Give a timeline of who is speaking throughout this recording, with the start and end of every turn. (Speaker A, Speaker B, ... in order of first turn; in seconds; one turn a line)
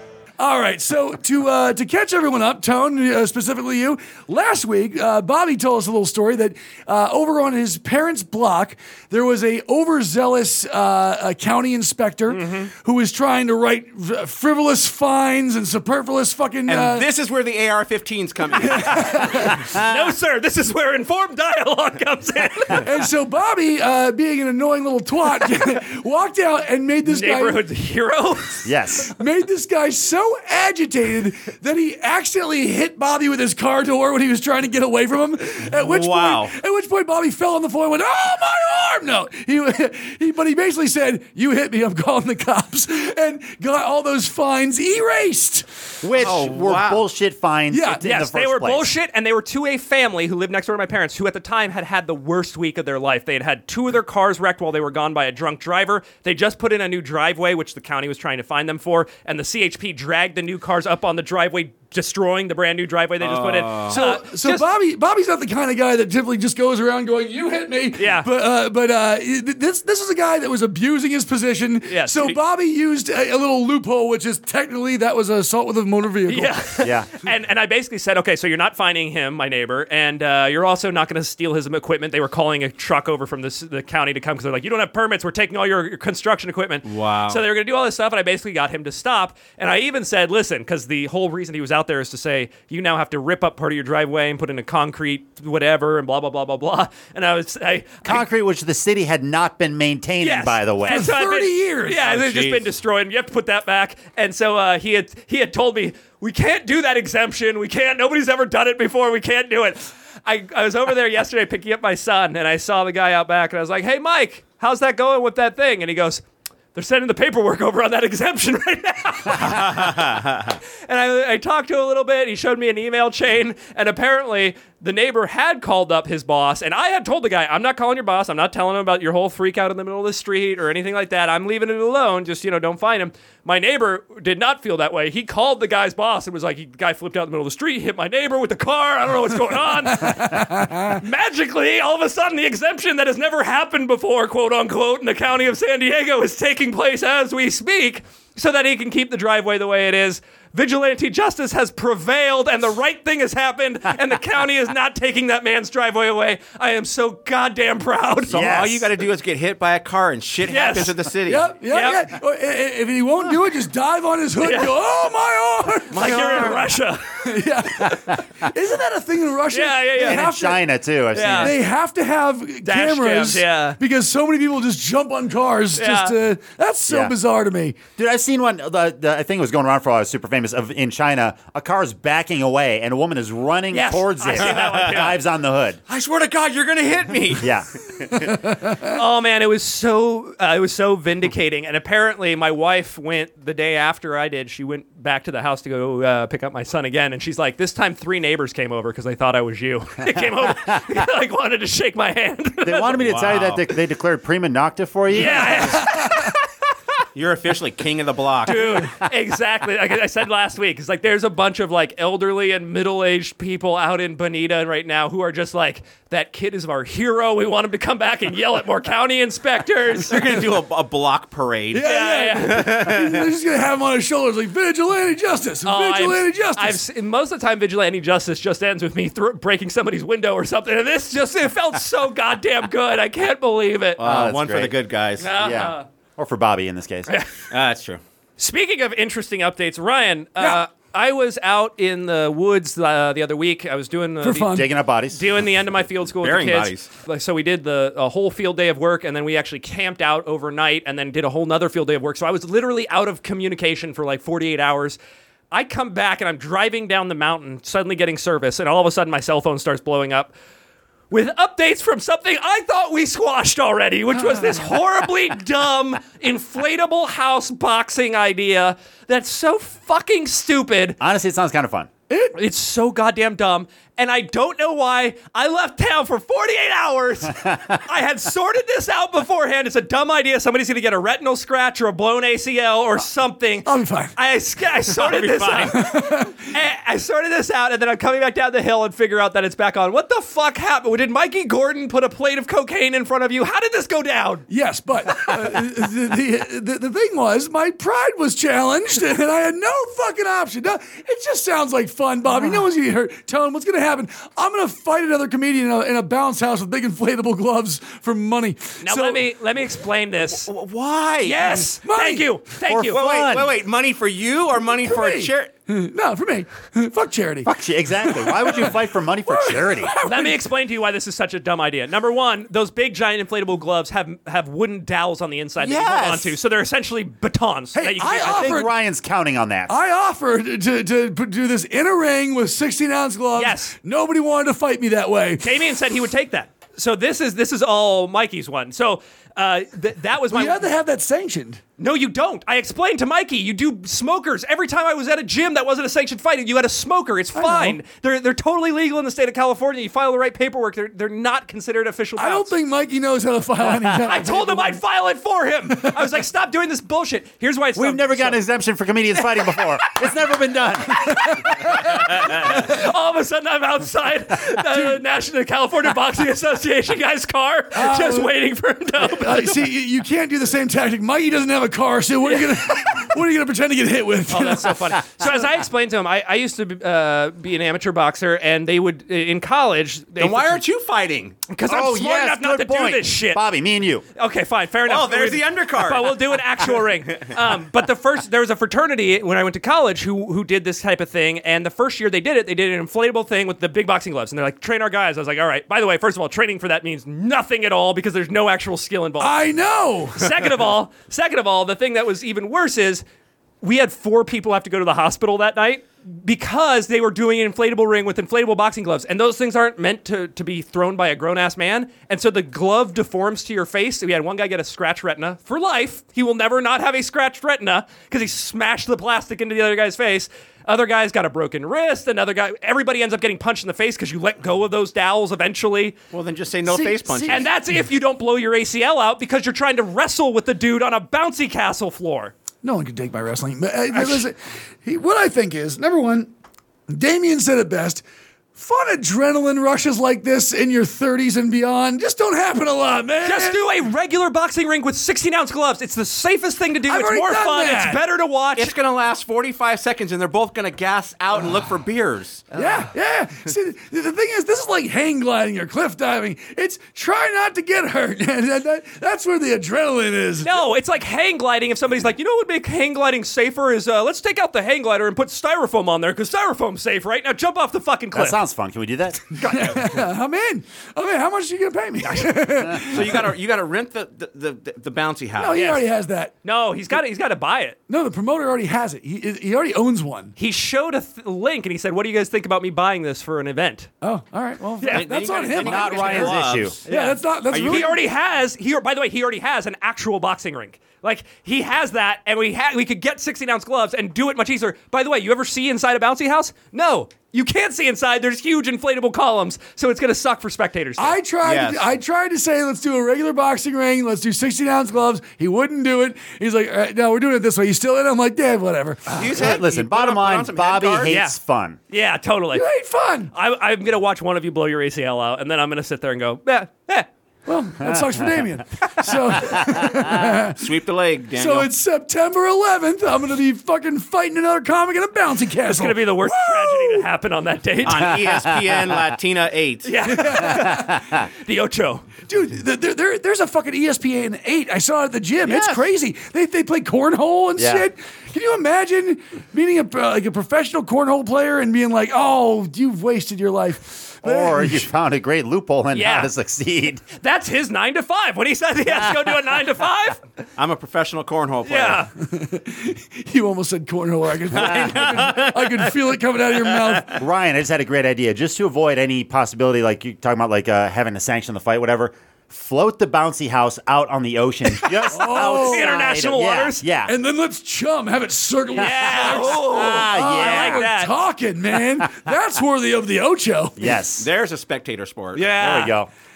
Speaker A: 0.4-17.0
Speaker B: 12.3-12.7
Speaker C: 16.7-19.1
Speaker A: 18.6-19.6
Speaker B: 19.3-22.9
Speaker D: 19.6-20.1
Speaker A: 22.7-27.6
Speaker B: 27.1-28.7
Speaker D: 28.6-29.1
Speaker A: 29.1-45.6
Speaker C: 35.8-36.5
Speaker D: 46.0-48.9
Speaker C: 46.1-47.0
Speaker A: 47.7-48.0
Speaker B: 48.0-64.7
Speaker C: 63.2-64.0
Speaker A: 63.9-76.5
Speaker B: 68.0-68.3
Speaker B: 71.9-72.3
Speaker B: 76.3-98.2
Speaker D: 76.8-77.1
Speaker C: 86.8-87.4
Speaker D: 98.0-101.1
Speaker B: 100.2-116.2
Speaker A: 100.8-102.0
Speaker C: 102.0-102.7
Speaker B: 116.7-120.0
Speaker C: 119.4-120.6
Speaker B: 120.9-158.7
Speaker A: 140.0-141.0
Speaker C: 158.3-161.5
Speaker D: 158.3-158.9
Speaker B: 160.5-161.0
Speaker A: 161.3-166.6
Speaker B: 161.7-162.1
Speaker B: 164.4-164.7
Speaker B: 165.9-167.3
Speaker C: 165.9-166.7
Speaker A: 167.2-170.6
Speaker B: 169.5-170.4
Speaker D: 170.0-171.6
Speaker B: 171.1-171.5
Speaker A: 171.3-177.8
Speaker B: 172.6-173.8
Speaker B: 175.8-176.2
Speaker D: 176.9-177.1
Speaker D: 178.0-185.8
Speaker B: 183.7-185.2
Speaker C: 185.9-188.3
Speaker D: 187.4-187.7
Speaker A: 188.2-188.9
Speaker B: 188.8-203.0
Speaker D: 202.6-205.9
Speaker C: 203.0-203.7
Speaker B: 205.1-206.4
Speaker C: 207.1-208.8
Speaker B: 208.4-220.4
Speaker C: 220.1-221.9
Speaker A: 221.7-226.8
Speaker B: 221.8-222.7
Speaker C: 222.4-223.3
Speaker B: 225.6-234.0
Speaker C: 234.0-235.4
Speaker D: 234.0-234.7
Speaker B: 235.2-235.8
Speaker D: 235.3-237.1
Speaker B: 237.1-237.4
Speaker C: 237.5-238.0
Speaker B: 238.4-255.0
Speaker A: 244.2-244.7
Speaker D: 244.5-245.2
Speaker C: 246.2-246.8
Speaker B: 255.5-260.3
Speaker B: 261.1-271.0
Speaker A: 264.3-264.6
Speaker D: 271.0-271.9
Speaker A: 272.1-272.3
Speaker B: 272.3-294.5
Speaker A: 283.6-284.1
Speaker C: 284.9-285.8
Speaker A: 285.7-286.4
Speaker A: 294.5-309.2
Speaker B: 295.1-295.5
Speaker B: 308.8-310.5
Speaker C: 310.2-311.7
Speaker B: 311.2-313.0
Speaker A: 311.5-312.3
Speaker D: 312.6-313.5
Speaker C: 312.8-315.5
Speaker A: 314.8-318.8
Speaker D: 317.4-319.9
Speaker A: 319.3-320.4
Speaker B: 320.0-328.6
Speaker C: 325.6-326.3
Speaker A: 327.7-328.7
Speaker D: 328.2-329.7
Speaker A: 329.7-335.5
Speaker B: 333.3-333.7
Speaker B: 335.4-340.6
Speaker A: 340.3-341.6
Speaker B: 341.8-352.5
Speaker A: 347.3-347.8
Speaker A: 352.1-354.8
Speaker B: 354.0-358.4
Speaker D: 357.8-362.5
Speaker B: 359.1-360.1
Speaker A: 360.9-361.7
Speaker B: 361.0-369.7
Speaker A: 364.7-365.0
Speaker A: 367.7-368.3
Speaker A: 369.0-374.7
Speaker B: 372.2-373.1
Speaker B: 374.3-380.6
Speaker C: 380.2-381.4
Speaker B: 381.5-383.4
Speaker D: 381.6-384.0
Speaker B: 384.1-399.5
Speaker C: 384.9-386.1
Speaker A: 399.2-400.3
Speaker B: 400.1-403.0
Speaker B: 403.6-425.9
Speaker C: 426.1-427.5
Speaker A: 426.6-427.4
Speaker B: 427.3-432.3
Speaker A: 432.6-436.3
Speaker A: 436.9-438.0
Speaker A: 438.5-443.6
Speaker B: 443.2-448.8
Speaker A: 446.9-448.0
Speaker C: 448.6-452.5
Speaker A: 452.5-460.6
Speaker B: 460.4-468.4
Speaker D: 468.1-469.2
Speaker B: 469.4-469.9
Speaker A: 469.4-473.3
Speaker C: 472.7-475.6
Speaker A: 475.4-476.3
Speaker B: 475.5-475.8
Speaker B: 476.4-477.8
Speaker A: 477.9-480.3
Speaker B: 480.4-483.9
Speaker A: 484.0-488.0
Speaker B: 484.8-485.1
Speaker C: 484.9-486.9
Speaker D: 485.6-486.8
Speaker B: 486.9-501.2
Speaker C: 487.5-488.0
Speaker A: 501.0-509.4
Speaker C: 501.4-501.8
Speaker C: 509.1-511.1
Speaker D: 509.3-511.8
Speaker B: 511.1-511.3
Speaker B: 511.9-512.6
Speaker A: 512.5-513.3
Speaker B: 513.3-517.0
Speaker A: 517.5-520.6
Speaker D: 517.8-518.2
Speaker D: 519.4-520.1
Speaker C: 520.5-521.7
Speaker A: 521.4-527.0
Speaker B: 525.6-528.3
Speaker C: 527.8-529.9
Speaker D: 528.2-529.1
Speaker B: 529.8-532.1
Speaker A: 530.1-531.0
Speaker D: 530.6-531.2
Speaker A: 532.3-544.9
Speaker D: 535.5-535.8
Speaker D: 537.6-537.8
Speaker D: 544.2-547.0
Speaker B: 545.9-546.3
Speaker B: 547.2-550.3
Speaker C: 550.6-552.0
Speaker B: 551.6-552.1
Speaker A: 552.2-557.2
Speaker C: 554.5-555.6
Speaker D: 557.1-567.1
Speaker B: 564.8-566.8
Speaker A: 565.1-565.9
Speaker A: 567.0-573.9
Speaker B: 568.8-571.1
Speaker D: 568.8-570.9
Speaker D: 573.8-574.3
Speaker C: 574.2-575.5
Speaker B: 575.3-576.0
Speaker D: 575.5-576.1